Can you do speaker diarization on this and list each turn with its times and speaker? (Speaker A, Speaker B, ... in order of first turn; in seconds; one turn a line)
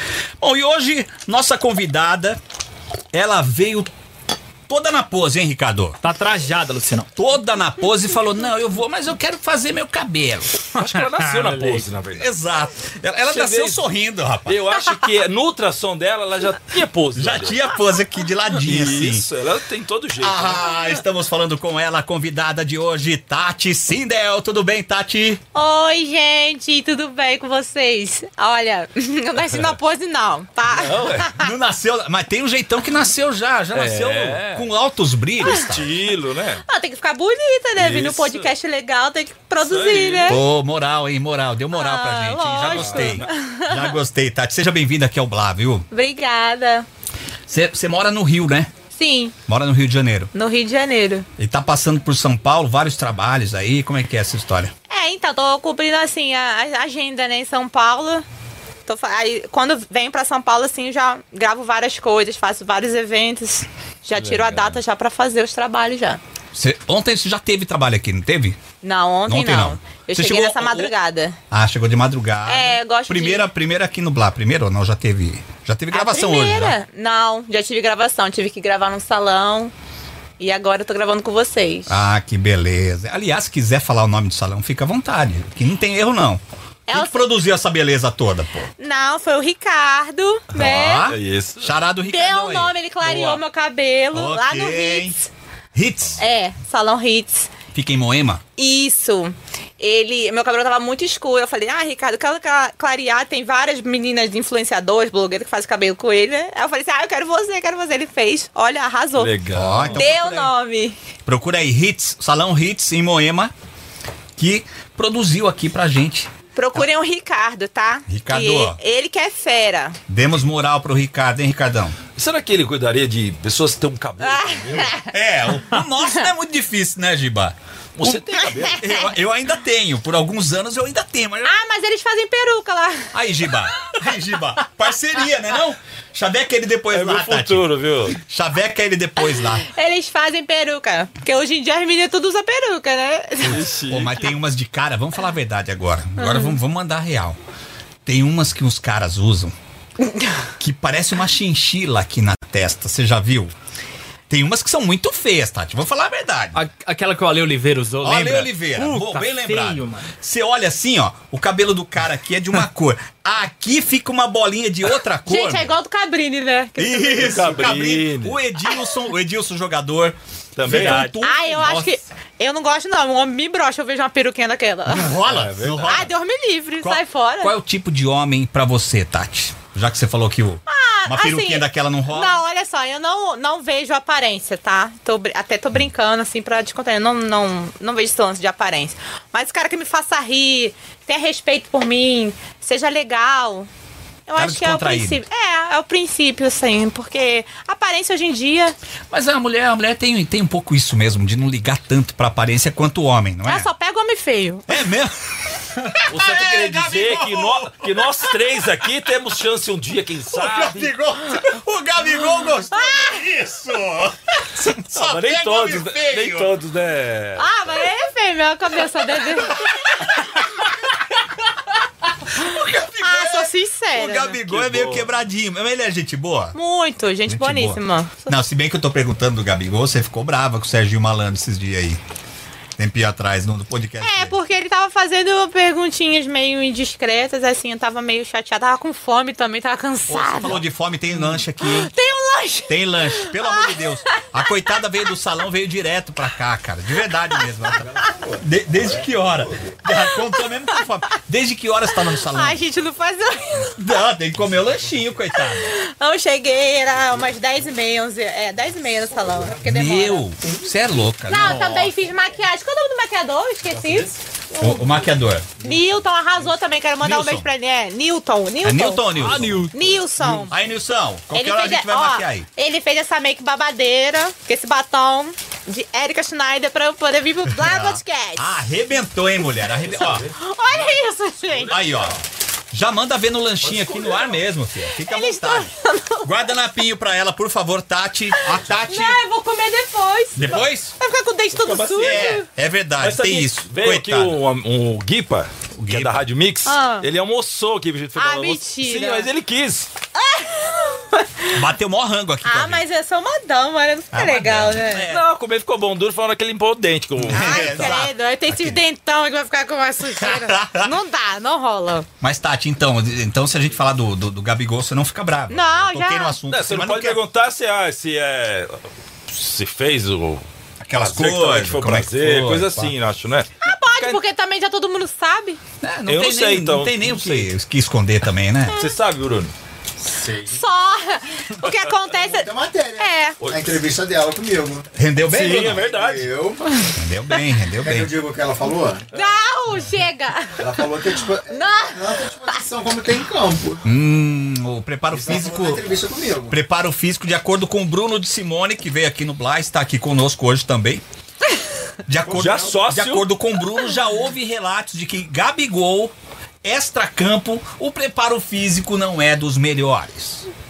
Speaker A: 0.4-2.4
Speaker A: 3.1-3.9
Speaker A: 4.7-6.0
Speaker B: 6.0-7.1
Speaker A: 7.2-10.7
Speaker C: 10.7-12.3
Speaker B: 10.8-11.9
Speaker A: 12.2-14.6
Speaker C: 13.3-13.8
Speaker C: 14.5-17.6
Speaker A: 17.1-19.3
Speaker C: 18.6-20.8
Speaker A: 20.2-25.4
Speaker D: 25.5-31.5
Speaker C: 30.7-31.3
Speaker A: 31.4-35.9
Speaker C: 33.7-34.7
Speaker C: 35.4-36.6
Speaker D: 35.4-35.7
Speaker D: 36.6-40.4
Speaker C: 37.8-38.5
Speaker C: 39.6-40.4
Speaker A: 40.3-45.9
Speaker D: 41.7-44.0
Speaker C: 42.6-43.3
Speaker D: 45.9-46.9
Speaker A: 47.5-48.7
Speaker D: 48.9-49.4
Speaker A: 49.5-50.3
Speaker D: 50.3-51.3
Speaker A: 51.4-54.7
Speaker D: 54.9-58.2
Speaker D: 58.9-66.2
Speaker C: 64.2-64.8
Speaker A: 66.5-68.6
Speaker D: 68.8-71.4
Speaker A: 69.3-70.9
Speaker A: 71.5-76.8
Speaker D: 72.5-73.5
Speaker D: 75.9-79.7
Speaker D: 80.4-82.0
Speaker A: 81.9-88.7
Speaker D: 86.9-87.2
Speaker D: 88.8-91.1
Speaker C: 90.5-91.7
Speaker A: 90.5-92.7
Speaker D: 92.0-95.3
Speaker C: 93.0-93.4
Speaker A: 94.1-95.2
Speaker A: 95.7-96.2
Speaker D: 96.2-97.5
Speaker A: 97.7-98.4
Speaker D: 98.6-109.3
Speaker C: 109.2-110.1
Speaker A: 109.5-110.5
Speaker D: 109.9-111.0
Speaker A: 111.3-113.5
Speaker A: 114.4-116.9
Speaker D: 116.5-120.0
Speaker A: 118.1-118.8
Speaker A: 120.1-122.0
Speaker C: 122.2-125.0
Speaker D: 124.2-125.1
Speaker A: 125.1-131.6
Speaker C: 128.0-129.0
Speaker D: 131.4-133.1
Speaker A: 133.1-139.7
Speaker C: 136.9-138.2
Speaker D: 139.2-143.7
Speaker C: 143.4-144.4
Speaker A: 143.4-147.4
Speaker D: 146.2-146.6
Speaker A: 148.1-149.6
Speaker D: 150.0-150.3
Speaker A: 150.6-153.5
Speaker A: 154.3-156.6
Speaker B: 156.5-160.1
Speaker A: 158.0-165.7
Speaker D: 165.3-167.5
Speaker A: 166.8-171.9
Speaker C: 167.2-168.4
Speaker C: 170.6-171.2
Speaker D: 170.7-175.1
Speaker A: 174.9-176.1
Speaker C: 175.2-176.1
Speaker D: 175.9-177.6
Speaker A: 176.8-182.4
Speaker D: 180.7-193.7
Speaker D: 194.3-198.8
Speaker A: 194.4-195.2
Speaker A: 199.1-203.7
Speaker D: 203.4-204.8
Speaker A: 204.7-208.1
Speaker C: 206.1-210.9
Speaker A: 210.3-216.5
Speaker D: 212.7-213.2
Speaker C: 214.9-217.7
Speaker D: 217.4-220.2
Speaker A: 219.3-220.6
Speaker A: 222.3-226.6
Speaker D: 223.0-224.4
Speaker C: 224.4-225.1
Speaker D: 226.6-228.3
Speaker A: 227.3-232.0
Speaker A: 232.8-234.4
Speaker D: 234.0-240.6
Speaker A: 240.1-241.9
Speaker D: 241.6-244.2
Speaker A: 242.7-247.9
Speaker E: 247.7-249.7
Speaker A: 248.4-252.6
Speaker D: 249.8-250.8
Speaker D: 252.1-253.8
Speaker A: 253.8-255.7
Speaker D: 255.3-260.3
Speaker A: 259.6-261.9
Speaker D: 261.3-265.0
Speaker A: 264.6-265.6
Speaker D: 265.6-270.6
Speaker A: 267.0-267.5
Speaker A: 268.6-269.7
Speaker B: 269.1-270.0
Speaker A: 270.4-272.5
Speaker D: 271.3-278.5
Speaker A: 277.5-280.3
Speaker D: 279.9-281.9
Speaker A: 281.6-282.2
Speaker C: 281.8-282.2
Speaker A: 282.7-289.2
Speaker C: 283.6-284.3
Speaker D: 284.9-286.5
Speaker D: 288.3-292.4
Speaker A: 290.4-290.9
Speaker C: 291.5-292.4
Speaker A: 292.0-294.4
Speaker C: 293.0-299.9
Speaker A: 295.8-296.3
Speaker D: 296.6-297.1
Speaker D: 298.2-299.3
Speaker D: 300.1-301.6
Speaker A: 301.5-302.8
Speaker D: 302.4-305.1
Speaker A: 304.1-305.3
Speaker C: 305.1-308.0
Speaker A: 307.2-308.8
Speaker D: 307.3-312.1
Speaker A: 310.1-310.9
Speaker A: 312.2-317.2
Speaker D: 315.5-316.4
Speaker C: 316.5-320.4
Speaker A: 320.8-322.9
Speaker C: 321.0-324.2
Speaker D: 323.6-325.6
Speaker A: 325.8-328.8
Speaker C: 326.1-327.5
Speaker D: 328.7-329.0
Speaker C: 328.7-329.5
Speaker E: 330.0-330.6
Speaker D: 330.5-333.4
Speaker E: 332.1-334.9
Speaker C: 333.4-333.9
Speaker A: 334.9-335.9
Speaker C: 335.2-336.4
Speaker E: 335.4-336.7
Speaker A: 336.9-338.1
Speaker E: 337.8-339.1
Speaker C: 339.1-339.4
Speaker D: 339.1-340.7
Speaker E: 340.6-343.9
Speaker D: 341.5-342.6
Speaker A: 343.8-345.8
Speaker E: 345.1-346.6
Speaker A: 346.5-351.0
Speaker A: 352.1-360.5
Speaker C: 352.3-353.3
Speaker E: 352.4-352.6